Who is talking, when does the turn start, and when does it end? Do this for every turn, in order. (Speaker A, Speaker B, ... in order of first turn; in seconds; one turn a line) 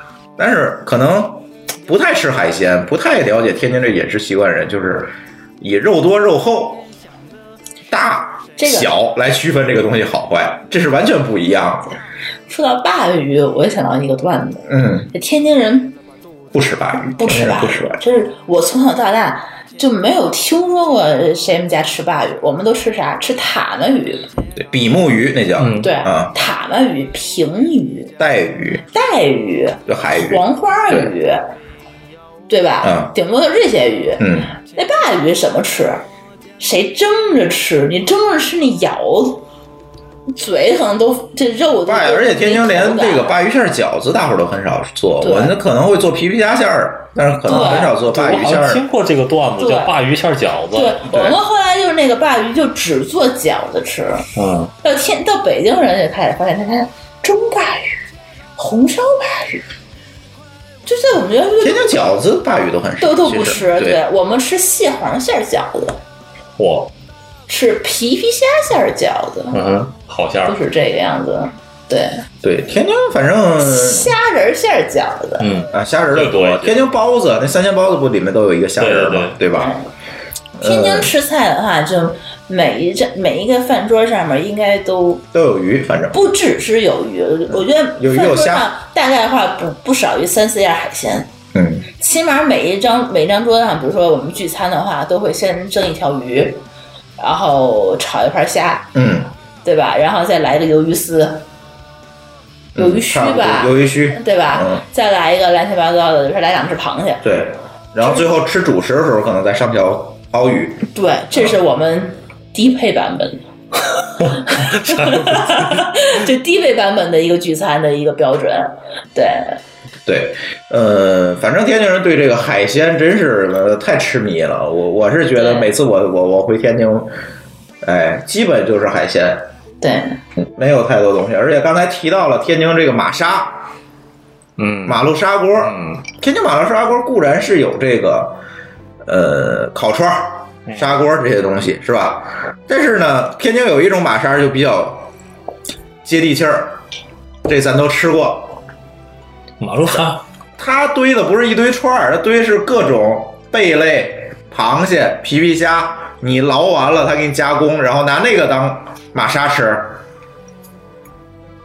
Speaker A: 0.4-6.9
Speaker A: 7.9-11.9
Speaker B: 8.6-8.9
Speaker B: 12.5-16.0
Speaker A: 14.7-15.1
Speaker A: 16.5-18.0
Speaker B: 17.2-24.3
Speaker A: 24.6-26.3
Speaker C: 25.6-25.9
Speaker B: 25.8-28.1
Speaker A: 28.2-28.8
Speaker B: 28.9-31.4
Speaker A: 29.9-31.1
Speaker B: 32.5-36.1
Speaker A: 32.8-33.1
Speaker A: 34.2-34.5
Speaker B: 36.6-39.5
Speaker B: 40.3-43.3
Speaker A: 41.9-48.9
Speaker B: 45.2-45.6
Speaker B: 47.5-47.9
Speaker C: 47.5-51.4
Speaker B: 49.6-49.9
Speaker B: 50.7-54.2
Speaker C: 54.4-54.7
Speaker B: 54.8-58.0
Speaker B: 58.6-59.6
Speaker B: 60.9-62.1
Speaker A: 61.6-64.0
Speaker B: 63.0-66.0
Speaker C: 66.6-66.9
Speaker B: 67.5-69.6
Speaker C: 69.5-70.6
Speaker B: 70.5-72.2
Speaker A: 72.4-74.1
Speaker B: 73.6-75.5
Speaker C: 75.4-76.8
Speaker A: 75.7-79.7
Speaker C: 78.8-79.4
Speaker B: 79.5-79.9
Speaker A: 80.6-81.1
Speaker B: 80.6-85.3
Speaker A: 85.3-86.3
Speaker B: 86.1-91.3
Speaker A: 87.5-88.7
Speaker A: 91.5-91.9
Speaker B: 92.0-96.6
Speaker B: 97.2-98.9
Speaker A: 98.9-99.3
Speaker B: 99.6-101.5
Speaker A: 102.8-104.8
Speaker B: 102.8-107.2
Speaker A: 107.2-110.8
Speaker B: 108.0-108.3
Speaker B: 110.9-113.4
Speaker B: 114.2-119.6
Speaker A: 120.1-127.2
Speaker B: 125.3-125.7
Speaker A: 127.8-129.5
Speaker B: 129.8-130.2
Speaker A: 130.4-133.6
Speaker C: 134.6-135.1
Speaker A: 134.8-138.4
Speaker C: 135.6-136.0
Speaker A: 139.0-145.1
Speaker A: 146.1-146.8
Speaker A: 147.5-148.6
Speaker C: 149.6-150.2
Speaker A: 150.6-160.0